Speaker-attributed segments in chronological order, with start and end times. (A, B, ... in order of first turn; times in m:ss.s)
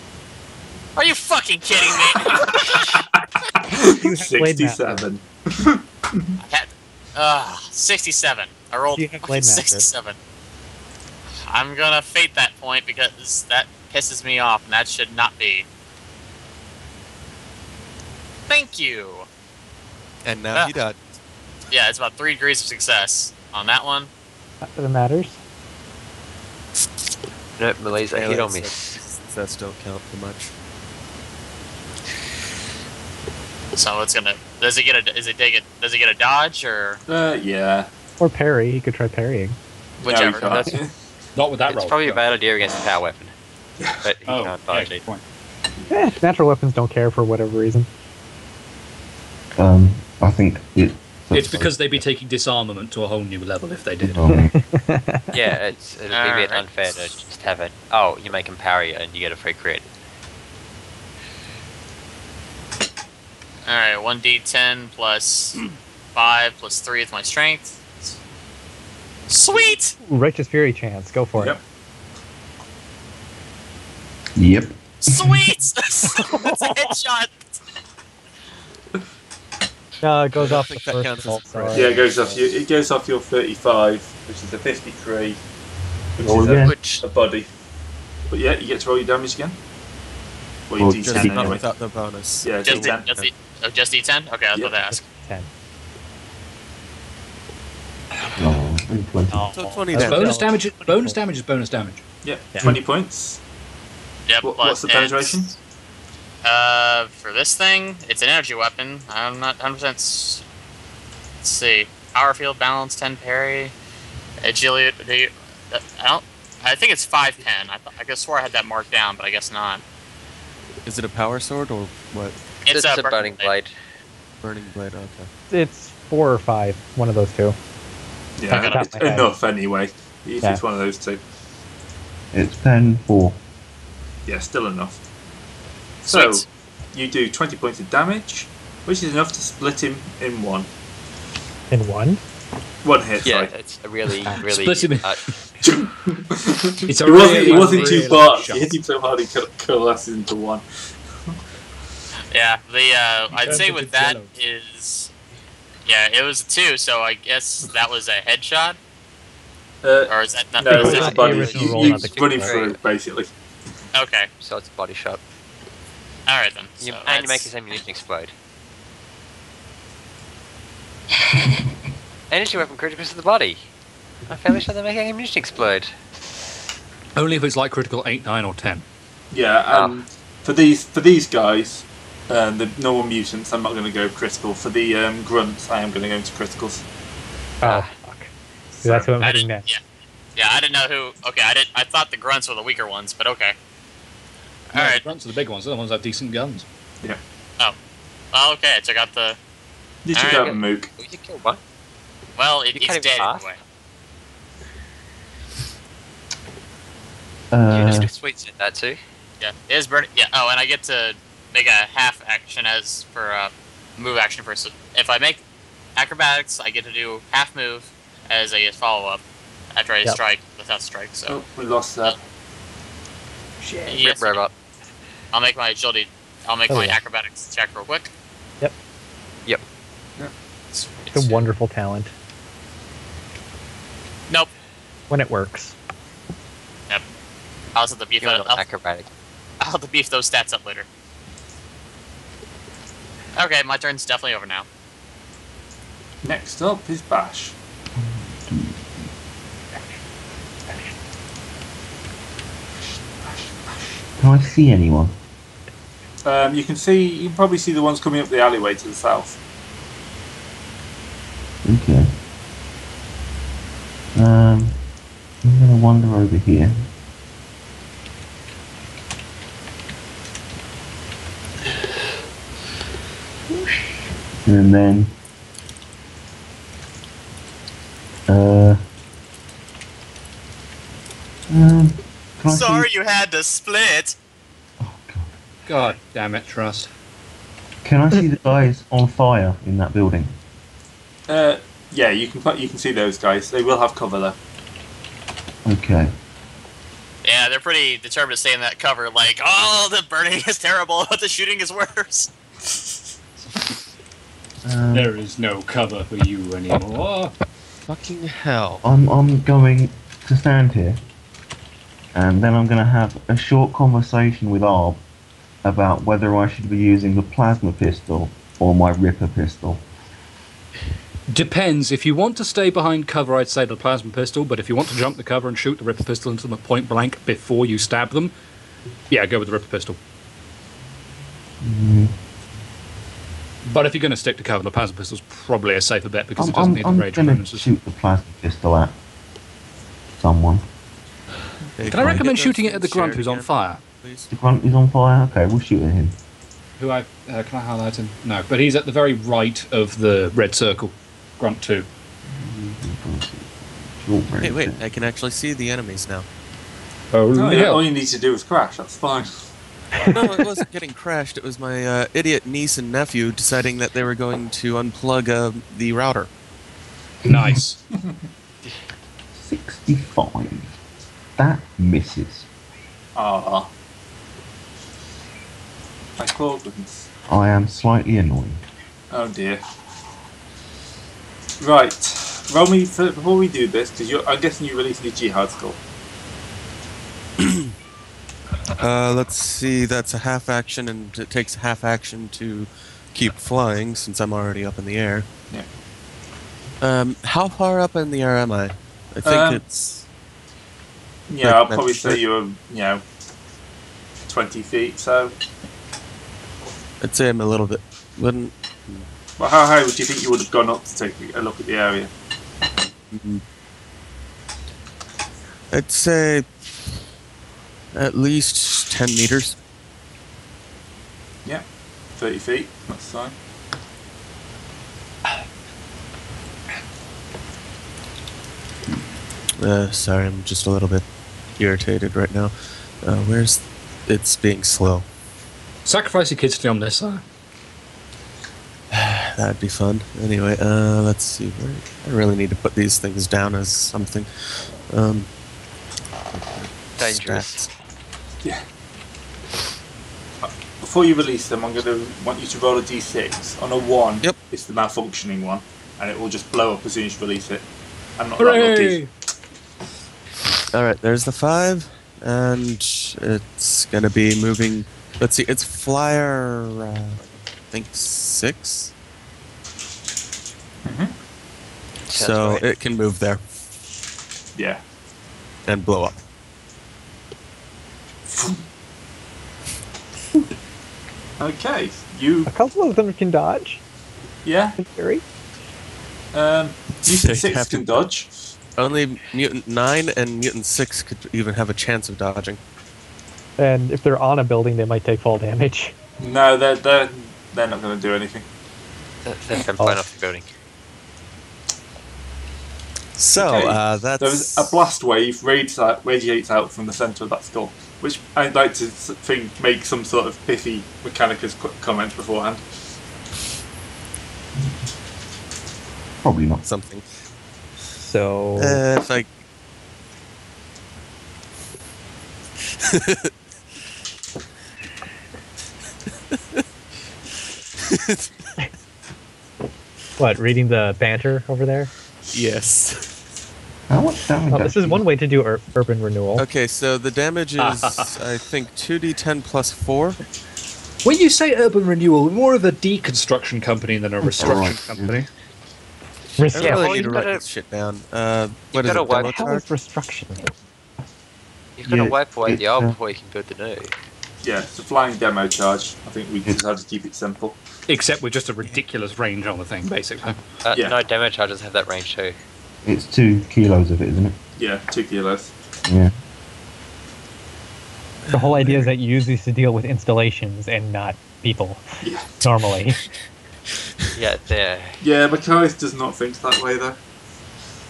0:01.0-0:03.0 A
0:02.2-0:06.3 B
0:03.7-0:05.1 C
0:06.4-0:10.2 A
0:09.0-0:09.9 C
0:11.5-0:15.6 A
0:18.5-0:19.3 A
0:20.2-0:21.0 D
0:21.7-0:24.1 A
0:24.6-0:25.4 C
0:27.6-0:29.0 E
0:27.9-0:30.5 D
0:33.7-0:37.0 A
0:37.1-0:37.9 B
0:38.2-0:39.6 C
0:40.0-0:40.9 B
0:40.0-0:40.7 A
0:40.2-0:40.8 E
0:41.3-0:42.2 F
0:41.7-0:43.3 E
0:43.8-0:44.0 B
0:44.0-0:45.0 E
0:44.2-0:45.2 F
0:45.9-0:47.9 C
0:49.6-0:52.0 G
0:51.3-0:54.2 F
0:54.0-0:54.5 G
0:54.5-0:55.3 C
0:55.3-0:59.9 E
0:56.1-0:57.1 A
1:03.6-1:05.6 A
1:06.1-1:08.1 A
1:09.3-1:10.0 A
1:10.0-1:11.6 C
1:14.4-1:15.4 G
1:15.0-1:17.4 A
1:16.1-1:16.9 C
1:20.0-1:22.1 C
1:20.3-1:22.0 D
1:21.7-1:25.4 B
1:26.2-1:27.5 B
1:26.2-1:27.0 G
1:26.6-1:27.0 E
1:28.3-1:29.6 B
1:30.7-1:31.6 B
1:30.8-1:31.6 G
1:31.0-1:33.3 D
1:32.4-1:33.1 B
1:32.6-1:35.0 A
1:34.9-1:35.5 C
1:38.4-1:39.5 G
1:39.3-1:40.1 A
1:39.5-1:40.4 D
1:39.9-1:41.2 C
1:40.0-1:42.0 F
1:42.2-1:43.4 B
1:44.3-1:45.5 A
1:44.4-1:45.5 B
1:46.4-1:50.4 A
1:51.4-1:53.7 A
1:54.4-1:59.8 A
2:00.8-2:02.4 D
2:02.7-2:03.5 A
2:02.7-2:03.7 E
2:04.4-2:05.3 D
2:05.5-2:07.6 C
2:08.4-2:11.2 B
2:08.5-2:09.0 A
2:08.5-2:09.3 C
2:12.3-2:13.4 G
2:14.2-2:15.0 B
2:16.0-2:20.7 B
2:21.7-2:22.2 C
2:22.8-2:23.5 B
2:23.2-2:25.2 E
2:24.2-2:25.4 F
2:25.6-2:30.6 B
2:26.9-2:28.7 F
2:27.1-2:28.2 C
2:32.3-2:35.1 A
2:33.3-2:34.3 F
2:35.8-2:38.8 A
2:39.8-2:43.3 B
2:40.1-2:41.4 A
2:40.6-2:42.6 C
2:40.7-2:42.8 E
2:43.9-2:44.3 A
2:44.4-2:45.2 E
2:46.3-2:47.5 A
2:46.8-2:48.3 E
2:52.3-2:53.7 E
2:54.3-2:55.9 E
2:57.2-2:58.8 F
2:59.3-3:06.8 B
2:59.7-3:00.0 E
3:07.6-3:07.9 E
3:07.6-3:08.3 C
3:08.8-3:09.1 B
3:08.8-3:09.6 C
3:09.2-3:09.8 A
3:10.4-3:13.5 A
3:14.7-3:15.0 A
3:14.7-3:16.6 F
3:18.3-3:19.4 A
3:20.0-3:20.9 B
3:20.1-3:20.5 A
3:20.2-3:21.6 E
3:22.4-3:23.6 A
3:22.7-3:23.5 E
3:27.5-3:28.1 G
3:27.7-3:29.0 E
3:29.4-3:35.4 A
3:36.0-3:39.2 A
3:39.7-3:41.4 A
3:41.2-3:42.2 B
3:43.8-3:44.5 E
3:43.9-3:44.5 A
3:45.3-3:48.1 A
3:46.7-3:47.0 C
3:50.7-3:51.4 A
3:51.1-3:52.1 C
3:55.1-3:55.8 C
3:57.7-3:58.6 A
3:58.2-3:59.1 E
3:59.6-4:00.8 A
4:03.4-4:04.6 A
4:06.2-4:07.6 B
4:07.9-4:09.1 G
4:14.2-4:15.1 G
4:16.2-4:19.4 B
4:21.6-4:22.1 G
4:24.1-4:24.8 G
4:25.4-4:26.9 G
4:33.5-4:35.1 G
4:38.3-4:38.8 G
4:41.5-4:42.9 G
4:42.5-4:44.2 A
4:44.8-4:45.3 G
4:45.7-4:46.9 F
4:47.8-4:50.4 G
4:51.3-4:54.4 B
4:55.6-4:56.1 G
4:57.2-5:02.3 A
5:04.6-5:05.1 G
5:04.9-5:07.3 F
5:07.9-5:08.8 D
5:08.8-5:11.0 G
5:12.1-5:15.0 G
5:15.6-5:19.9 G
5:21.3-5:28.3 F
5:29.1-5:30.0 F
5:31.6-5:32.1 G
5:33.7-5:37.7 F
5:36.4-5:39.0 G
5:40.2-5:40.6 G
5:41.8-5:44.3 D
5:41.8-5:43.8 F
5:42.0-5:42.3 G
5:44.3-5:46.2 G
5:46.8-5:51.9 F
5:52.3-5:54.8 G
5:54.4-5:56.3 D
5:57.1-5:57.8 F
5:57.3-5:59.4 B
6:00.0-6:00.2 C
6:00.1-6:06.3 D
6:07.2-6:07.6 G
6:07.2-6:07.8 F
6:09.3-6:10.7 G
6:11.4-6:12.5 G
6:13.1-6:13.7 B
6:16.2-6:17.1 B
6:17.3-6:18.6 G
6:19.1-6:19.6 B
6:21.6-6:25.8 B
6:27.4-6:27.7 D
6:28.8-6:35.3 D
6:36.8-6:40.0 D
6:39.2-6:39.6 B
6:41.3-6:43.0 B
6:41.4-6:42.2 D
6:44.3-6:45.4 B
6:47.0-6:49.0 D
6:49.4-6:52.1 B
6:53.1-6:53.4 D
6:55.7-6:56.5 D
6:57.9-6:59.6 D
7:02.2-7:03.3 B
7:09.6-7:11.0 D
7:11.6-7:15.0 D
7:15.8-7:17.2 F
7:18.9-7:25.3 D
7:26.3-7:27.7 D
7:27.0-7:27.7 E
7:30.4-7:37.7 B
7:38.2-7:39.0 B
7:38.4-7:39.1 F
7:40.7-7:48.9 D
7:50.8-7:51.1 B
7:52.1-7:52.6 E
7:52.1-7:53.4 D
7:54.6-7:54.8 B
7:55.6-7:56.2 D
7:58.3-7:58.6 B
8:01.4-8:02.5 B
8:02.4-8:03.8 C
8:04.4-8:04.8 B
8:04.8-8:05.2 C
8:06.3-8:08.3 B
8:07.2-8:08.0 D
8:08.8-8:12.6 D
8:13.6-8:16.0 C
8:16.2-8:18.5 B
8:19.2-8:20.5 E
8:23.2-8:24.8 D
8:23.4-8:32.6 B
8:36.2-8:36.6 G
8:36.6-8:37.0 D
8:38.0-8:38.8 C
8:38.6-8:39.3 D
8:42.8-8:43.3 D
8:47.9-8:48.3 D
8:50.2-8:51.9 C
8:52.3-8:53.1 D
8:53.9-8:55.0 G
8:54.5-8:56.4 C
8:56.4-9:00.2 D
8:57.6-8:58.2 F
9:01.0-9:05.2 F
9:04.3-9:05.3 G
9:06.4-9:06.9 C
9:06.5-9:09.6 D
9:06.6-9:07.4 E
9:08.7-9:09.4 E
9:09.2-9:10.5 C
9:11.8-9:13.9 E
9:11.8-9:13.0 G
9:14.4-9:17.6 B
9:17.9-9:20.6 F
9:20.6-9:22.4 E
9:20.7-9:21.0 B
9:22.8-9:24.4 G
9:24.6-9:25.5 B
9:25.8-9:26.1 G
9:28.3-9:31.8 C
9:32.0-9:32.3 B
9:32.4-9:33.0 C
9:34.2-9:35.0 E
9:35.0-9:37.0 B